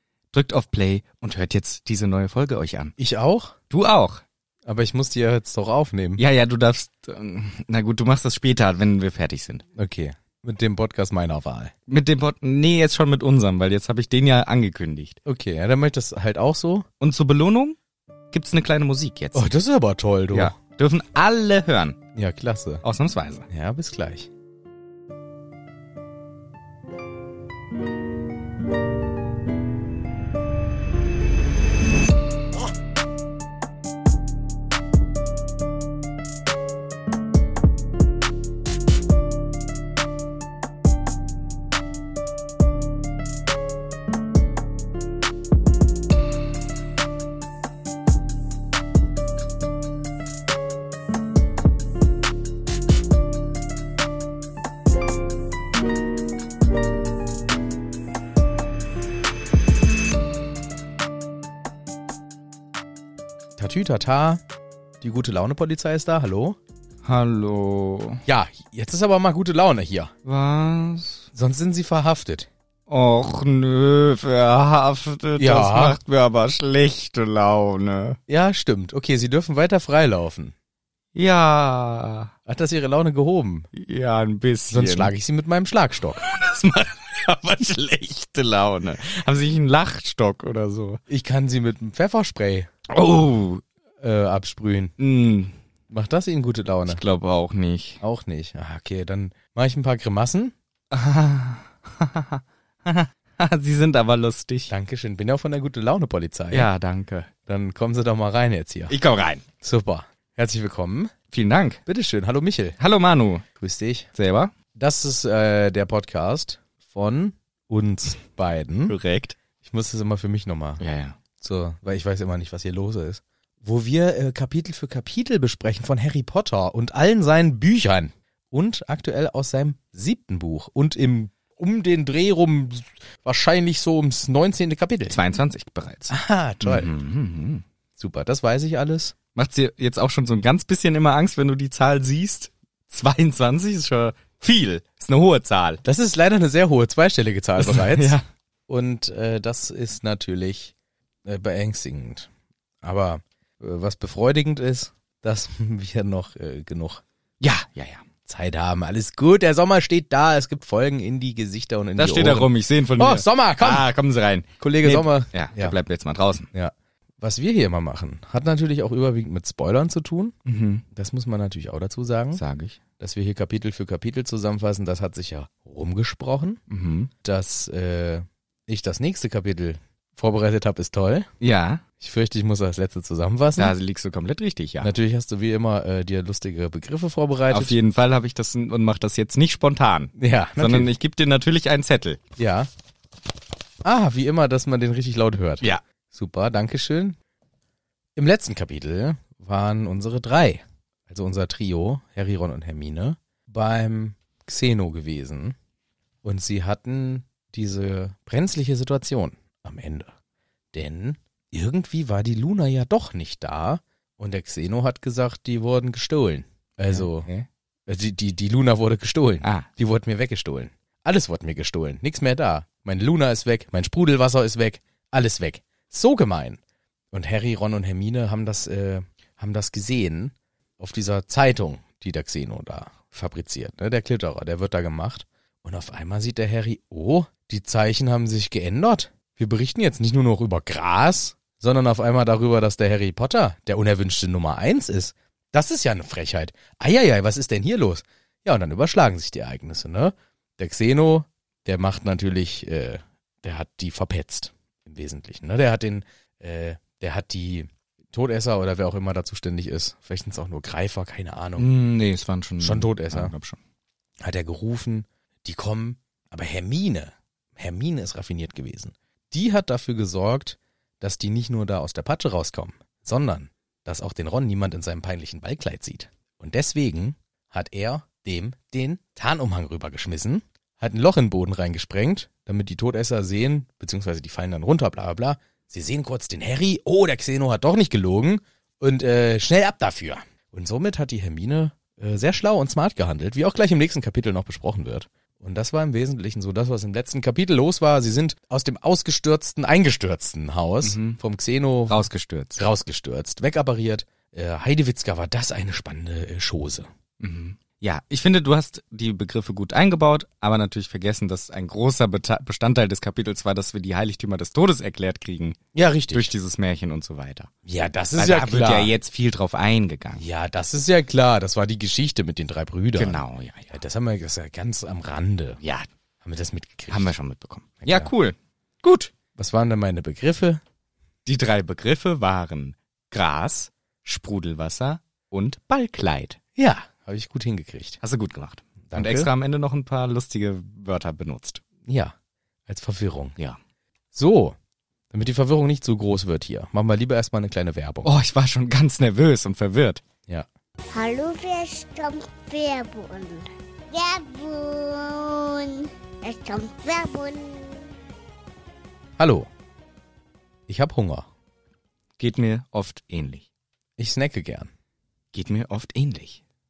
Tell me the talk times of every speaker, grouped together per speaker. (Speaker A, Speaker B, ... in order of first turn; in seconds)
Speaker A: 0.3-2.9, 3.7-4.2, 6.2-9.6, 11.9-15.2, 17.0-17.8, 18.3-19.5, 20.3-22.0, 22.8-23.5, 67.0-68.2, 70.2-71.3, 72.9-78.2, 81.2-82.3, 83.7-85.1, 86.2-91.0, 92.9-93.6, 95.0-95.5, 96.9-98.0, 100.9-104.7, 106.5-107.3, 108.9-109.4, 111.3-111.8, 112.8-113.5, 114.2-114.5, 118.9-119.4, 120.8-121.2, 135.1-137.6, 139.3-145.8, 147.6-148.2, 157.4-158.0, 162.0-166.5, 170.5-170.8, 172.3-172.8, 176.7-177.1, 181.4-181.8, 183.6-184.9, 187.5-192.2, 216.9-217.5, 261.6-263.6, 300.8-301.2, 301.9-302.6, 307.2-315.6, 316.1-317.5, 318.2-320.2, 323.0-323.7, 325.6-325.9, 326.9-329.1, 331.3-336.4, 338.0-341.6, 348.0-350.0, 362.2-363.4, 365.3-366.4
Speaker B: 3.0-3.6, 4.7-6.2, 9.8-11.7, 15.2-16.9, 19.3-20.6, 22.1-22.8, 23.5-24.3, 63.6-64.4, 65.0-66.6, 68.3-70.1, 71.3-72.5, 75.4-76.0, 78.3-80.5, 82.5-83.7, 84.7-86.2, 91.1-92.7, 94.0-94.9, 95.9-97.0, 98.0-100.5, 104.7-106.7, 107.5-109.0, 109.6-111.1, 111.9-112.8, 113.6-114.1, 114.8-119.0, 119.6-120.8, 121.4-135.2, 136.1-136.9, 138.0-139.2, 145.8-148.2, 148.7-150.7, 151.2-152.3, 152.8-157.0, 158.3-163.9, 164.6-165.8, 166.5-170.3, 170.9-172.4, 173.0-176.6, 177.2-181.3, 182.0-183.7, 184.8-187.8, 190.2-190.9, 192.4-192.7, 193.8-197.2, 198.2-205.6, 206.2-210.1, 210.7-217.3, 217.9-226.6, 227.1-261.7, 262.6-263.3, 264.2-302.1, 302.6-306.9, 315.7-316.3, 317.7-318.9, 320.2-325.6, 326.2-327.1, 327.8-328.1, 329.4-330.6, 336.6-338.0, 338.9-339.3, 341.9-342.1, 342.7-343.4, 344.1-344.6, 345.1-348.1, 359.2-359.5, 360.7-361.3, 364.0-364.7
Speaker C: 350.9-357.9